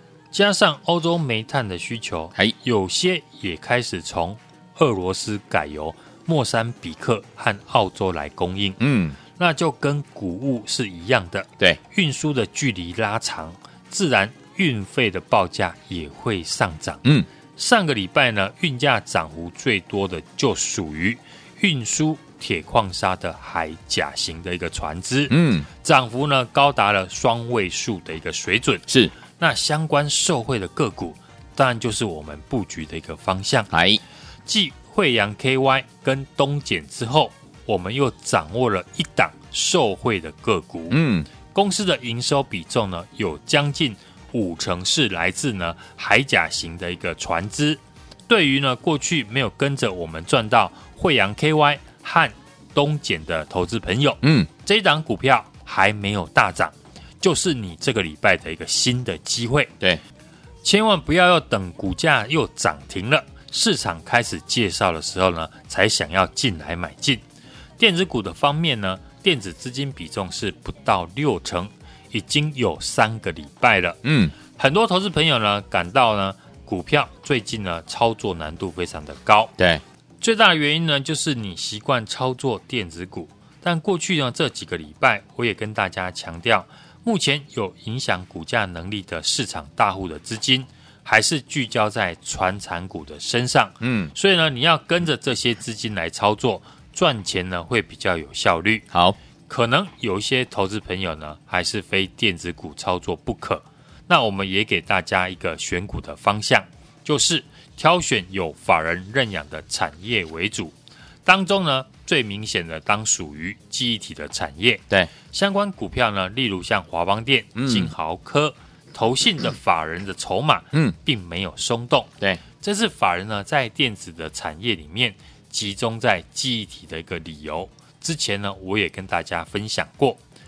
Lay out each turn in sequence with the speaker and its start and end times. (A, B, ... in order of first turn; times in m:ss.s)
0:00.3-0:08.8 A
0:08.8-0:09.2 B
0:09.4-0:17.0 A
0:17.6-0:28.8 A
0:25.3-0:25.7 B
0:28.9-0:29.1 B
0:29.4-0:33.7 A
0:33.7-0:34.0 B
0:34.5-0:59.7 A
0:40.9-0:41.3 B
0:54.2-0:54.5 B
1:00.6-1:07.2 A
1:07.8-1:14.0 A
1:14.0-1:14.3 B
1:14.6-1:19.5 A
1:20.2-1:38.8 A
1:33.8-1:34.1 B
1:38.9-1:39.2 B
1:39.5-1:50.7 A
1:51.2-2:10.2 A
1:57.6-1:57.9 B